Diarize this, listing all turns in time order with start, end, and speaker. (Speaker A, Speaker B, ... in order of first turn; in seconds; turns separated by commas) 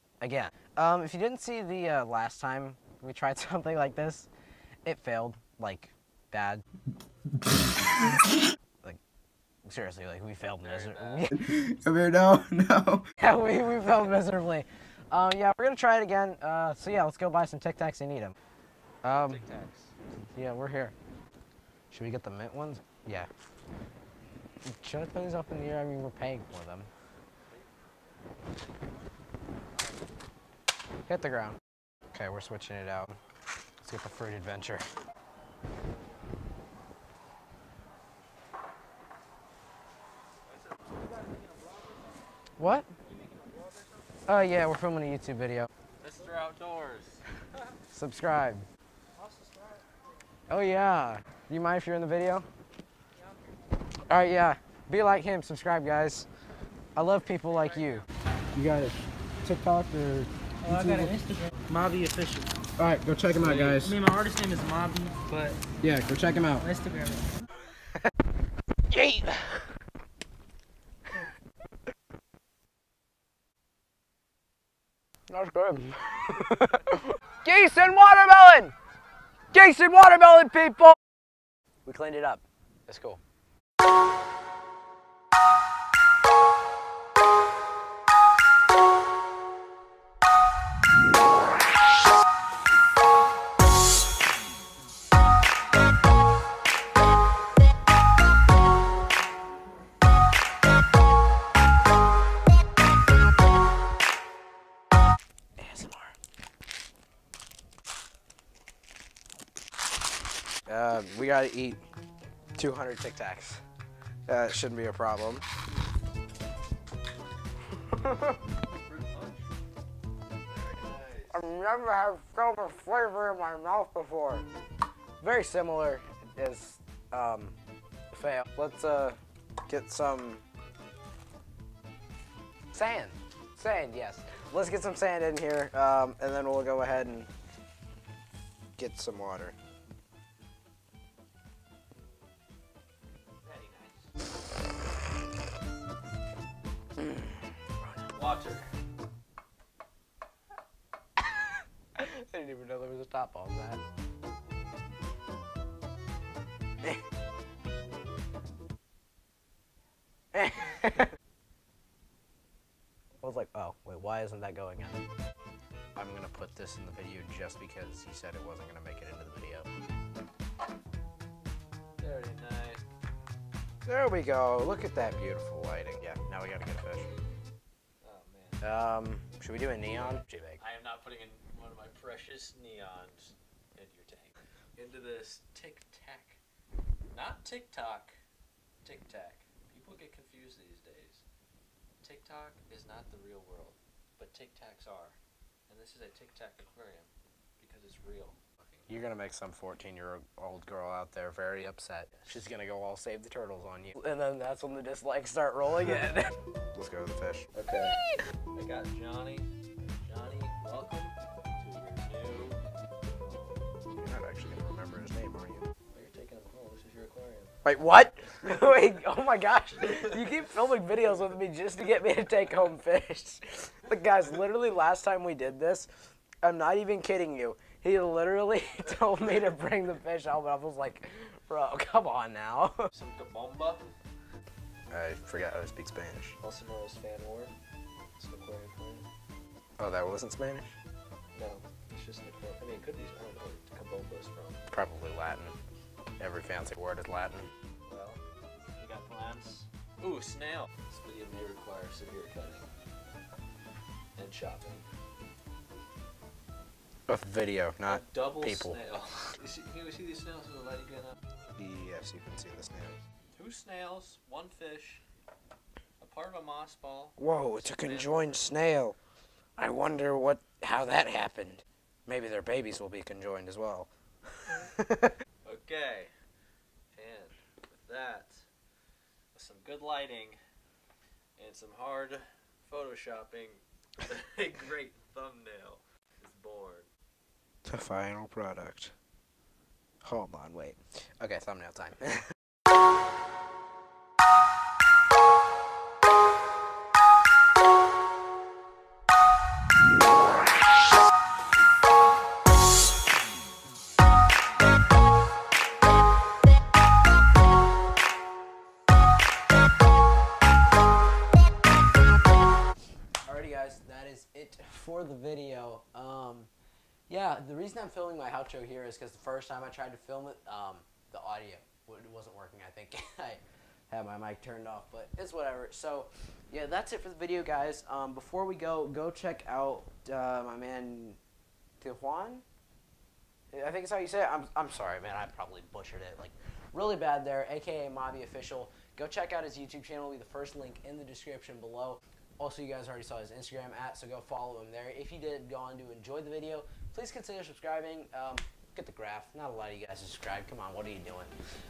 Speaker A: 0.2-4.3, Speaker A: 4.8-6.6, Speaker A: 9.7-18.4, Speaker B: 10.4-11.3, Speaker C: 11.6-13.0, Speaker A: 19.0-19.4, Speaker B: 19.1-19.9, Speaker A: 20.4-20.9, Speaker A: 21.9-23.3, Speaker A: 24.6-26.9, Speaker A: 31.1-31.6, Speaker A: 32.1-33.2, Speaker A: 33.8-34.9, Speaker A: 42.6-42.9, Speaker A: 44.3-45.7, Speaker B: 46.0-47.2, Speaker A: 47.9-48.7, Speaker A: 50.5-52.5, Speaker A: 54.1-56.3, Speaker A: 57.0-61.3, Speaker C: 60.6-62.5, Speaker A: 62.8-64.0, Speaker C: 63.4-65.6, Speaker A: 65.8-66.7, Speaker C: 66.6-67.3, Speaker A: 67.7-68.1, Speaker A: 68.9-69.7, Speaker A: 75.3-78.7, Speaker A: 79.5-81.0, Speaker A: 81.8-83.2, Speaker A: 105.6-106.1, Speaker A: 110.7-111.8, Speaker A: 112.6-113.6, Speaker A: 114.3-115.4, Speaker A: 117.8-118.4, Speaker B: 118.8-119.5, Speaker B: 120.5-121.5, Speaker A: 121.3-124.5, Speaker A: 125.2-127.6, Speaker A: 128.1-130.4, Speaker A: 132.7-137.3, Speaker A: 138.8-139.6, Speaker B: 143.4-144.1, Speaker A: 147.0-148.1, Speaker B: 148.1-148.7, Speaker A: 151.2-153.8, Speaker A: 160.3-161.1, Speaker A: 163.2-165.0, Speaker A: 166.0-169.7, Speaker B: 172.0-172.8, Speaker A: 173.9-177.1, Speaker B: 178.0-178.6, Speaker A: 178.6-180.6, Speaker B: 180.6-186.4, Speaker B: 187.1-188.2, Speaker B: 188.8-191.2, Speaker B: 192.0-198.8, Speaker A: 198.9-207.5, Speaker B: 202.1-202.5, Speaker B: 207.6-208.0, Speaker B: 208.5-209.5, Speaker B: 210.1-212.6, Speaker B: 213.1-213.7, Speaker A: 214.0-215.7, Speaker B: 215.9-217.6, Speaker A: 217.6-225.9, Speaker B: 218.4-219.0, Speaker B: 219.8-220.2, Speaker A: 226.4-232.9, Speaker B: 232.9-233.9, Speaker A: 234.9-236.4, Speaker B: 236.4-237.6, Speaker B: 238.2-239.1, Speaker A: 239.8-240.7, Speaker B: 241.3-244.6, Speaker A: 244.7-245.5, Speaker A: 246.2-247.5, Speaker B: 247.9-248.2, Speaker B: 248.8-252.7, Speaker B: 254.2-254.9, Speaker A: 257.1-258.8, Speaker B: 257.8-261.2, Speaker A: 261.5-263.0, Speaker B: 263.4-265.0, Speaker B: 266.0-268.5, Speaker A: 267.2-269.0, Speaker A: 269.6-273.9, Speaker A: 274.4-275.1, Speaker B: 275.4-276.1, Speaker B: 276.9-278.5, Speaker B: 279.4-280.4, Speaker B: 281.4-286.9, Speaker A: 287.7-288.9, Speaker A: 290.0-292.2, Speaker A: 313.2-316.5, Speaker A: 317.1-331.2, Speaker A: 331.8-332.4, Speaker A: 333.5-351.3